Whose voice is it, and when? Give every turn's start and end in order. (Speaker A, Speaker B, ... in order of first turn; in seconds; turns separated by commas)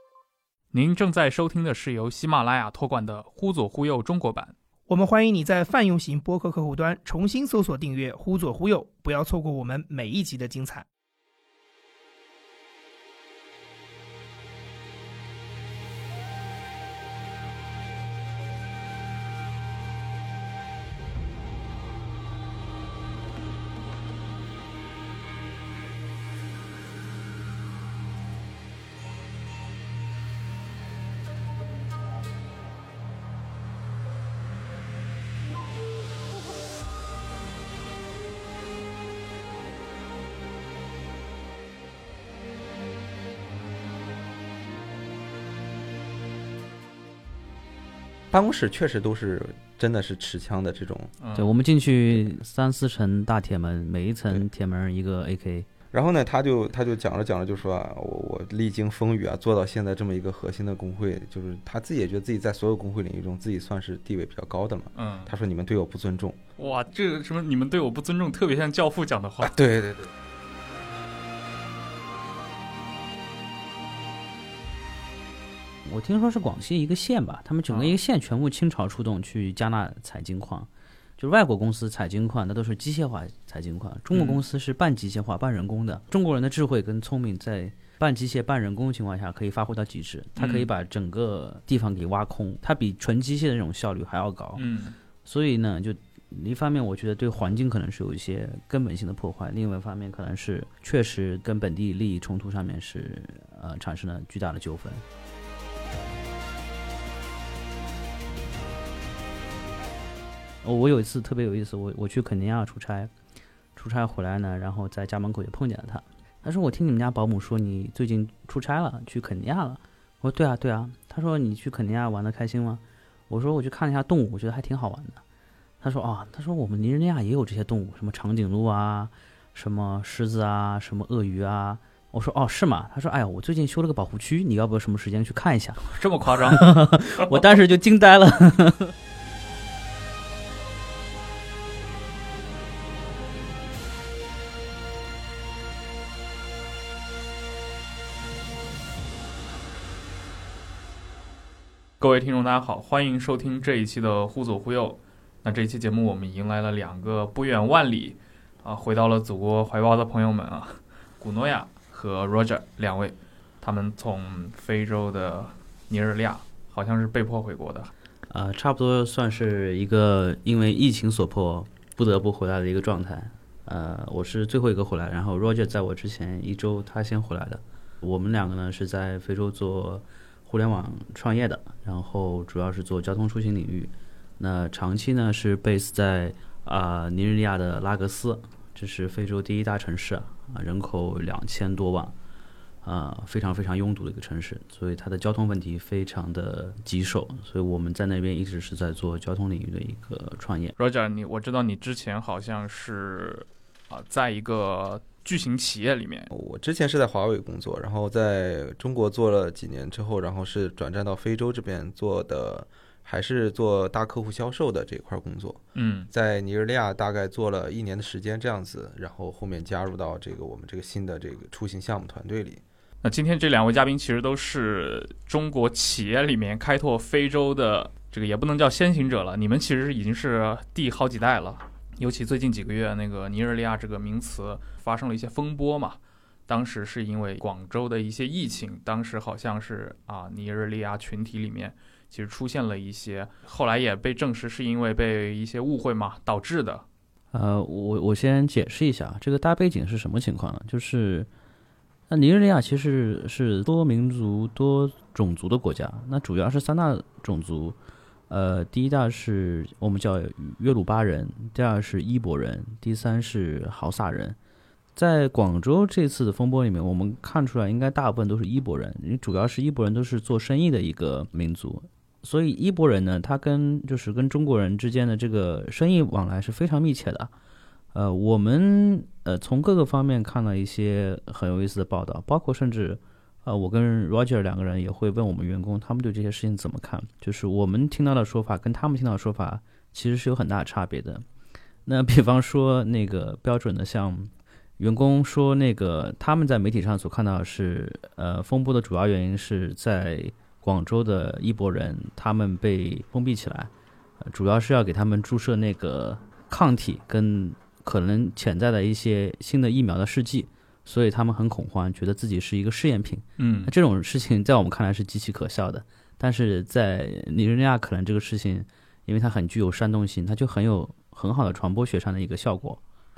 Speaker A: 0.7-4.5, Speaker B: 4.9-10.8, Speaker C: 48.3-51.1, Speaker A: 51.2-51.5, Speaker D: 51.3-55.7, Speaker C: 55.9-66.4, Speaker A: 64.9-65.3, Speaker A: 66.6-69.5, Speaker C: 69.4-70.1, Speaker D: 75.8-94.7, Speaker A: 77.7-78.0, Speaker A: 84.1-84.4, Speaker A: 90.4-90.7, Speaker A: 94.5-95.0, Speaker D: 95.2-105.0, Speaker D: 110.6-113.1, Speaker D: 113.8-125.2, Speaker D: 125.8-138.9, Speaker A: 135.8-137.5, Speaker A: 152.0-167.9, Speaker D: 168.3-192.1, Speaker D: 192.8-200.7, Speaker A: 200.8-206.3, Speaker C: 206.3-222.6, Speaker A: 215.7-216.1, Speaker A: 223.0-246.8, Speaker D: 247.3-251.3, Speaker D: 252.1-257.8, Speaker D: 258.3-264.4, Speaker D: 264.9-277.3, Speaker D: 277.9-291.2, Speaker D: 291.9-303.7, Speaker D: 304.2-322.8, Speaker A: 313.4-313.7